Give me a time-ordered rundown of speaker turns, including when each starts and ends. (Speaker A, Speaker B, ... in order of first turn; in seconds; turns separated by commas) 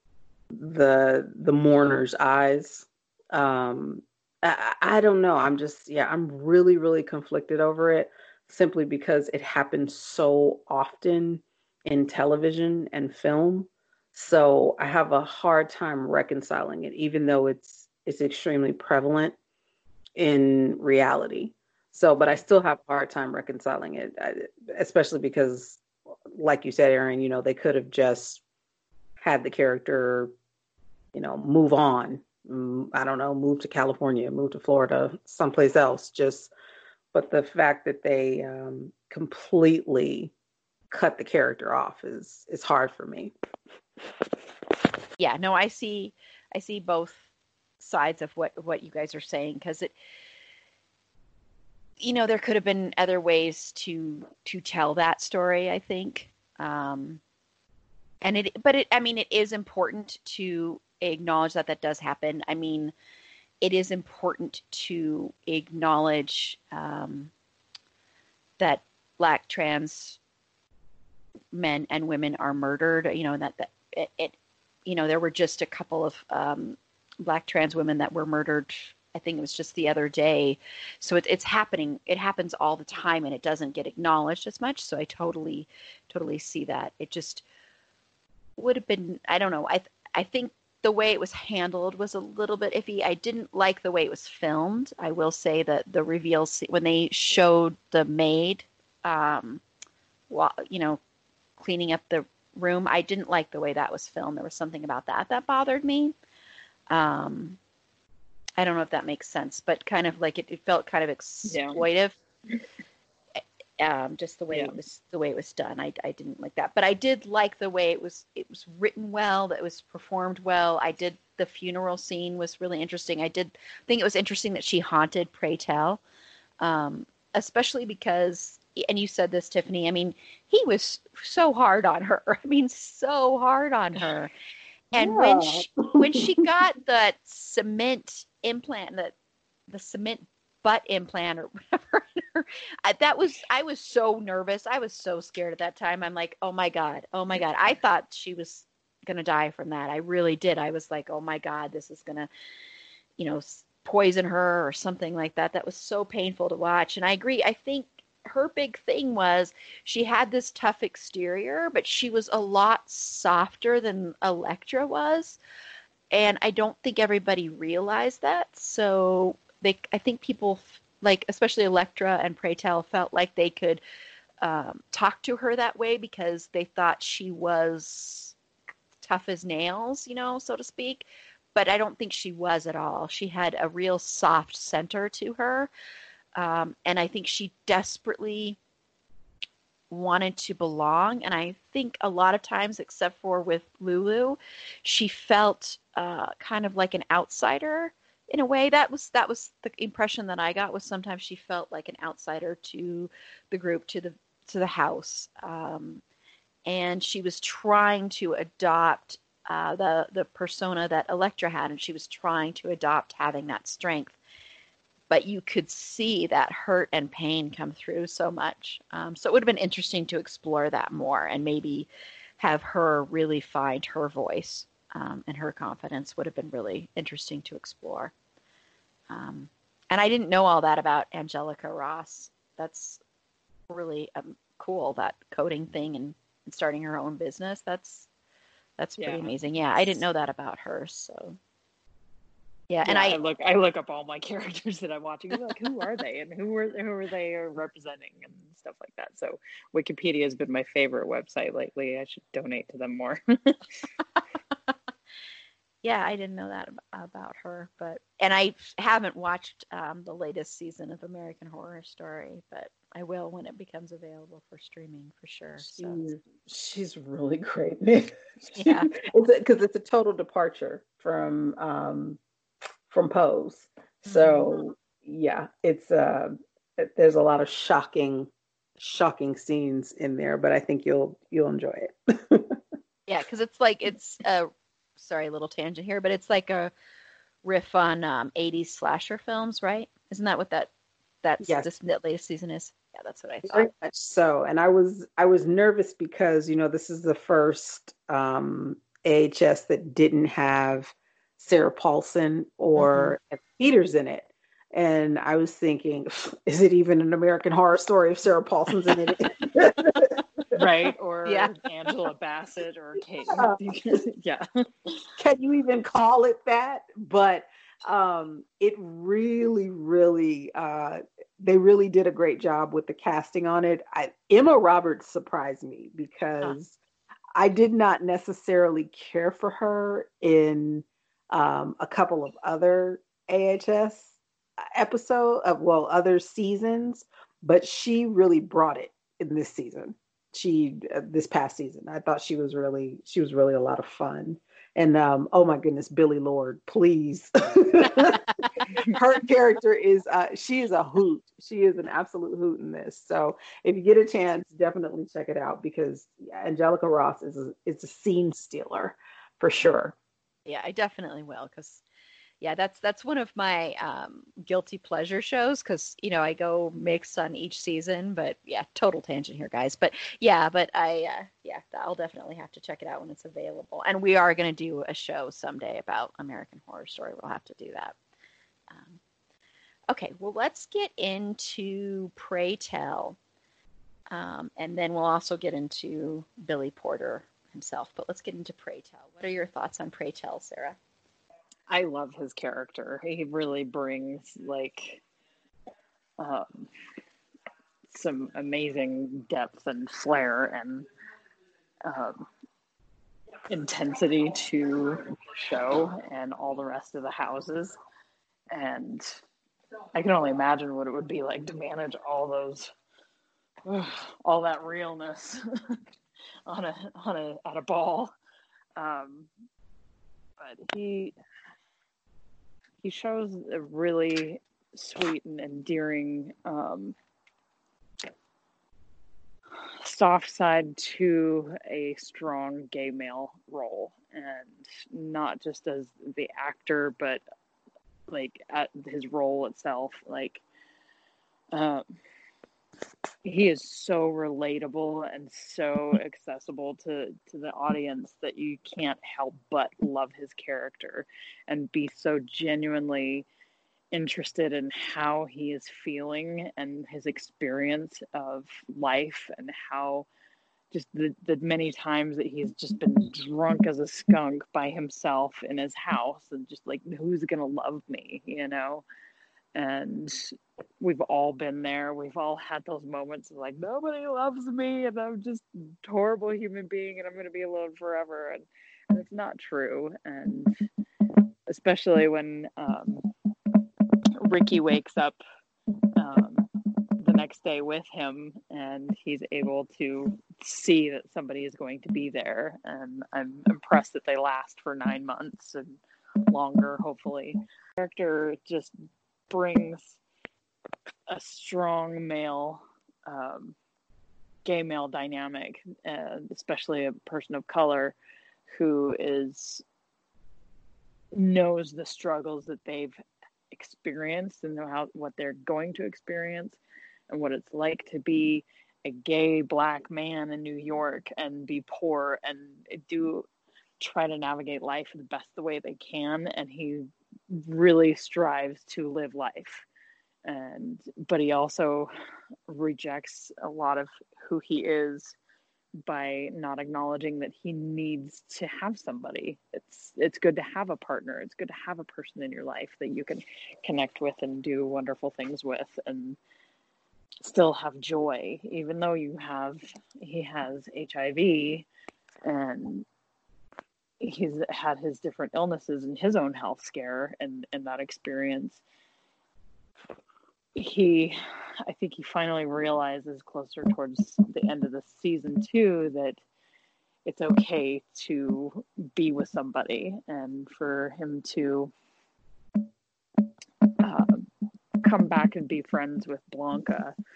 Speaker A: 0.5-19.4, Speaker A: 20.1-25.8, Speaker A: 26.3-28.4, Speaker A: 29.2-30.3, Speaker A: 31.1-36.5, Speaker A: 37.1-40.3, Speaker A: 40.9-43.3, Speaker B: 45.2-47.2, Speaker B: 47.8-49.9, Speaker B: 52.0-57.2, Speaker B: 58.2-62.9, Speaker B: 63.6-67.3, Speaker B: 68.6-70.2, Speaker B: 71.5-74.3, Speaker B: 74.8-87.4, Speaker B: 88.6-99.6, Speaker B: 100.3-101.0, Speaker B: 101.6-106.1, Speaker B: 106.9-107.6, Speaker B: 108.6-112.2, Speaker C: 111.5-111.8, Speaker B: 113.8-126.0, Speaker C: 114.5-114.8, Speaker B: 126.6-134.3, Speaker B: 134.9-139.1, Speaker A: 134.9-136.4, Speaker B: 139.7-152.3, Speaker B: 153.2-165.4, Speaker B: 166.1-173.8, Speaker B: 174.4-178.3, Speaker B: 179.0-185.7, Speaker B: 186.3-188.6, Speaker B: 189.9-206.0, Speaker B: 206.7-214.2, Speaker B: 215.1-221.9, Speaker B: 222.4-228.1, Speaker B: 229.1-233.0, Speaker B: 233.7-238.1, Speaker B: 238.8-241.4, Speaker C: 239.0-239.3, Speaker B: 242.7-243.2, Speaker C: 242.8-253.7, Speaker B: 255.8-266.0, Speaker A: 265.6-272.2, Speaker B: 268.6-268.9, Speaker A: 272.9-282.6, Speaker B: 274.1-274.6, Speaker B: 283.1-286.7, Speaker B: 287.4-290.7, Speaker B: 291.2-293.7, Speaker A: 291.4-291.7, Speaker A: 293.4-310.3, Speaker B: 302.8-303.1, Speaker C: 310.5-315.0, Speaker B: 311.2-311.5, Speaker A: 313.3-313.6, Speaker A: 315.2-326.7, Speaker A: 327.4-334.1, Speaker A: 334.7-359.9, Speaker B: 360.4-361.8, Speaker B: 362.4-377.9, Speaker B: 378.7-379.0, Speaker B: 379.9-383.2, Speaker B: 384.1-390.8, Speaker C: 391.7-395.0, Speaker C: 396.2-396.7, Speaker C: 397.9-400.9, Speaker C: 401.8-402.3, Speaker C: 403.5-407.7, Speaker C: 408.5-409.2, Speaker C: 409.9-412.7, Speaker C: 413.6-415.8, Speaker C: 416.5-418.1, Speaker C: 418.8-419.3, Speaker C: 420.4-421.1, Speaker C: 422.8-426.9, Speaker C: 429.7-437.2, Speaker C: 438.1-440.4, Speaker C: 441.5-441.8, Speaker C: 443.2-453.3, Speaker C: 453.9-460.1, Speaker C: 460.7-468.8, Speaker C: 469.6-480.6, Speaker C: 481.5-483.1, Speaker C: 484.1-485.2, Speaker C: 485.9-486.5, Speaker C: 487.0-495.7, Speaker C: 496.3-498.7, Speaker C: 499.3-500.0, Speaker C: 501.1-503.6, Speaker C: 504.4-507.9, Speaker C: 508.5-509.6, Speaker C: 511.1-513.0, Speaker C: 513.5-516.6, Speaker C: 517.1-523.3, Speaker C: 523.8-529.6, Speaker C: 530.2-531.9, Speaker C: 532.5-535.1, Speaker C: 535.8-546.2, Speaker C: 547.2-551.7, Speaker C: 552.2-552.9, Speaker C: 554.0-558.6, Speaker C: 560.5-566.2, Speaker C: 567.0-571.7, Speaker C: 573.8-574.3, Speaker C: 574.8-576.9